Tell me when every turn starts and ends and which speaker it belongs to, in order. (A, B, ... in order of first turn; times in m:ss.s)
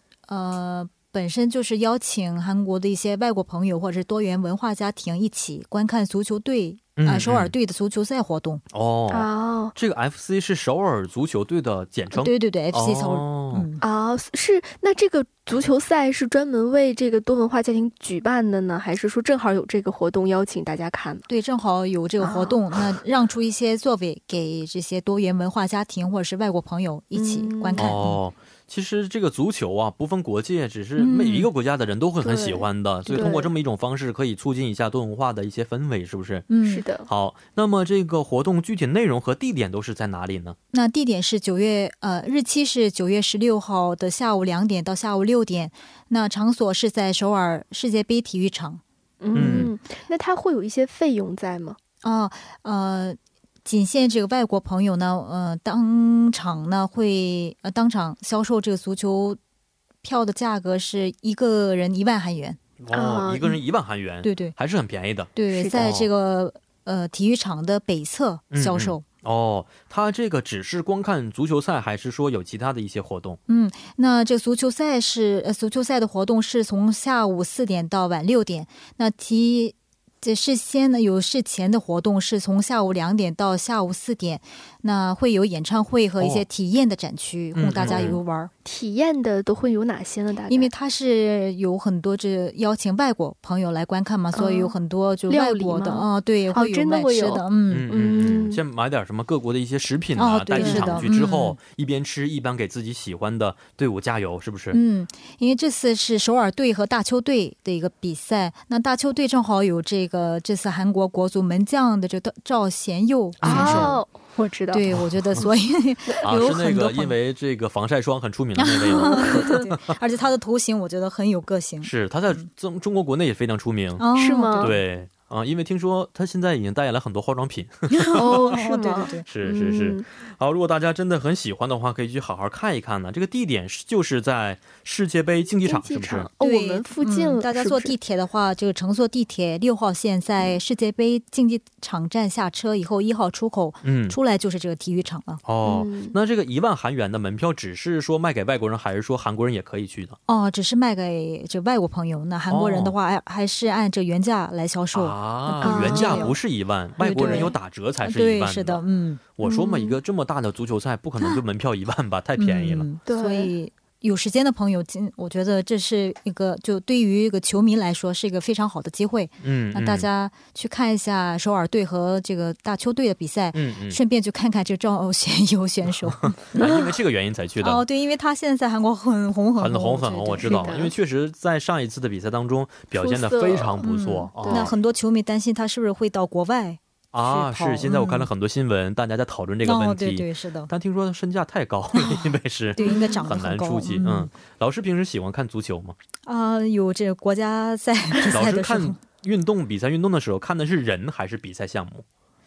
0:00.3-0:08.6 A
0:07.0-0:07.5 B
0:08.7-0:13.7 B
0:09.1-0:09.7 C
0:12.1-0:13.8 A
0:13.8-0:21.3 C
0:21.3-0:28.2 A
0:22.2-0:22.6 C
0:27.2-0:27.9 C
0:27.8-0:36.5 B
0:31.0-0:31.5 A
0:32.2-0:33.5 C
0:36.5-0:36.8 A
0:36.6-0:37.1 C
0:37.0-0:40.6 B
0:40.7-0:48.8 A
0:49.2-0:51.8 C
0:49.3-0:49.7 B
0:49.4-0:49.7 A
0:52.0-0:59.4 A
1:00.0-1:02.6 A
1:02.8-1:06.1 B
1:02.9-1:03.5 C
1:04.2-1:04.6 A
1:05.4-1:09.0 A
1:05.5-1:05.8 C
1:08.5-1:13.4 B
1:13.5-1:28.5 A
1:26.2-1:26.5 B
1:27.6-1:28.2 B
1:27.9-1:30.7 C
1:30.5-1:37.9 A
1:34.3-1:34.7 C
1:35.3-1:38.6 C
1:37.7-1:44.8 B
1:40.2-1:41.6 A
1:40.6-1:41.0 C
1:44.7-1:54.0 A
1:53.4-1:54.0 B
1:53.4-1:55.0 C
1:54.7-1:57.2 A
1:54.9-1:55.5 B
1:56.2-2:00.0 B
1:58.6-2:02.5 A
1:58.9-1:59.6 C
2:01.8-2:08.5 B
2:04.0-2:04.8 A
2:04.2-2:04.8 C
2:07.9-2:09.3 A
2:08.2-2:10.0 C
2:09.2-2:16.3 B
2:15.6-2:18.0 C
2:16.4-2:25.4 A
2:23.8-2:24.2 B
2:25.4-2:30.2 B
2:25.6-2:26.2 C
2:30.3-2:36.4 A
2:32.5-2:33.0 B
2:34.9-2:38.8 B
2:35.6-2:36.3 C
2:37.0-2:39.2 A
2:37.1-2:37.5 C
2:39.4-2:42.9 B
2:39.4-2:40.0 C
2:42.4-2:56.4 A
2:43.1-2:43.5 C
2:49.4-2:50.1 B
2:53.5-2:54.0 B
2:56.1-2:57.8 B
2:57.6-3:00.7 A
2:59.6-3:04.7 B
3:00.5-3:00.9 C
3:03.0-3:04.7 C
3:03.8-3:08.3 A
3:07.1-3:16.0 B
3:09.6-3:10.7 A
3:12.0-3:12.3 A
3:12.8-3:14.3 A
3:12.8-3:13.3 C
3:16.3-3:19.0 A
3:18.3-3:22.0 B